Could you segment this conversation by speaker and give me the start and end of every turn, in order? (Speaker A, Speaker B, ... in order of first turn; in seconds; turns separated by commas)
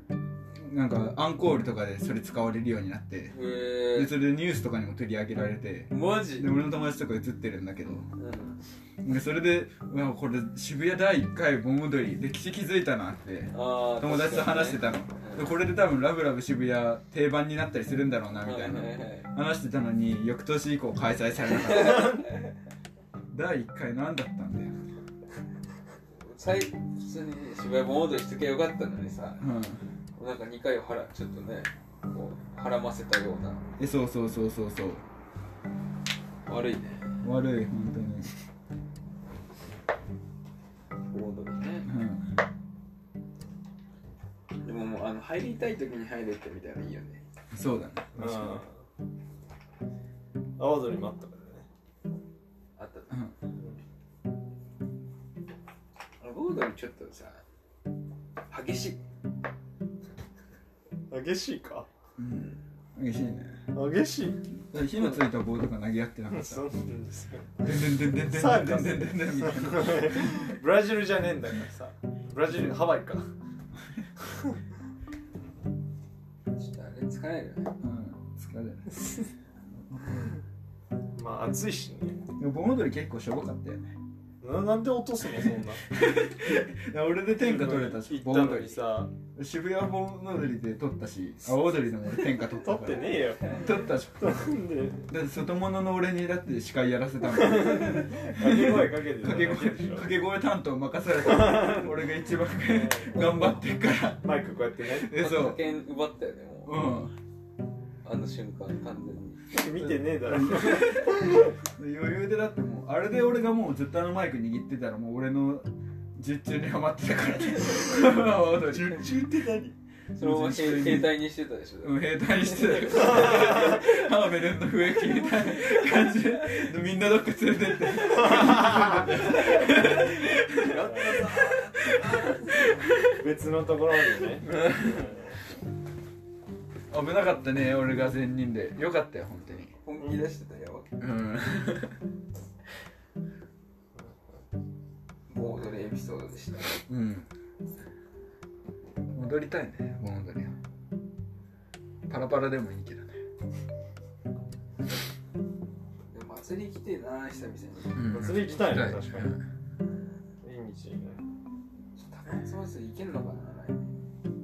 Speaker A: 0.5-3.4, Speaker B: 3.3-4.1, Speaker A: 3.9-8.1, Speaker B: 5.9-6.5, Speaker B: 8.2-8.6, Speaker A: 9.0-22.3, Speaker B: 13.5-15.6, Speaker B: 18.4-19.3, Speaker B: 21.5-22.5, Speaker A: 23.3-24.8, Speaker B: 26.2-29.4, Speaker A: 29.4-29.8, Speaker B: 30.1-33.6, Speaker A: 33.8-35.0, Speaker B: 36.5-37.2, Speaker A: 37.2-38.3, Speaker B: 41.1-41.9, Speaker A: 41.9-42.2, Speaker B: 44.6-47.2, Speaker A: 47.5-48.6, Speaker C: 48.1-48.8, Speaker C: 50.6-51.6, Speaker B: 52.8-53.2, Speaker B: 56.2-57.4, Speaker B: 58.5-59.0, Speaker C: 61.1-61.9, Speaker A: 62.2-63.6, Speaker C: 63.7-64.4, Speaker A: 64.7-66.7, Speaker C: 66.3-73.3, Speaker A: 67.6-70.6, Speaker C: 74.3-74.5, Speaker B: 76.5-77.8, Speaker A: 77.8-79.0, Speaker C: 79.0-79.2, Speaker C: 81.1-82.2, Speaker A: 82.4-84.0, Speaker C: 84.4-85.8, Speaker A: 85.9-94.4, Speaker C: 87.4-89.1, Speaker C: 92.5-93.6, Speaker C: 94.2-95.1, Speaker A: 95.1-104.3, Speaker C: 97.3-100.2, Speaker C: 101.2-102.0, Speaker C: 102.6-103.6, Speaker C: 104.1-105.1, Speaker A: 104.9-105.6, Speaker B: 105.1-106.8, Speaker A: 106.7-107.1, Speaker B: 108.0-109.5, Speaker C: 109.5-111.5, Speaker A: 110.2-133.1, Speaker B: 120.2-123.7, Speaker C: 122.9-123.8, Speaker C: 128.0-129.7, Speaker B: 129.1-132.7, Speaker C: 130.7-131.3, Speaker C: 133.0-135.2, Speaker A: 134.4-135.1, Speaker A: 136.9-139.7, Speaker B: 139.8-140.9, Speaker A: 141.0-142.0, Speaker B: 145.3-146.8, Speaker A: 146.9-147.3, Speaker A: 149.1-150.5, Speaker A: 152.1-153.2, Speaker B: 156.1-158.2, Speaker A: 157.9-159.4, Speaker C: 158.1-159.3, Speaker C: 160.4-161.2, Speaker B: 162.0-164.0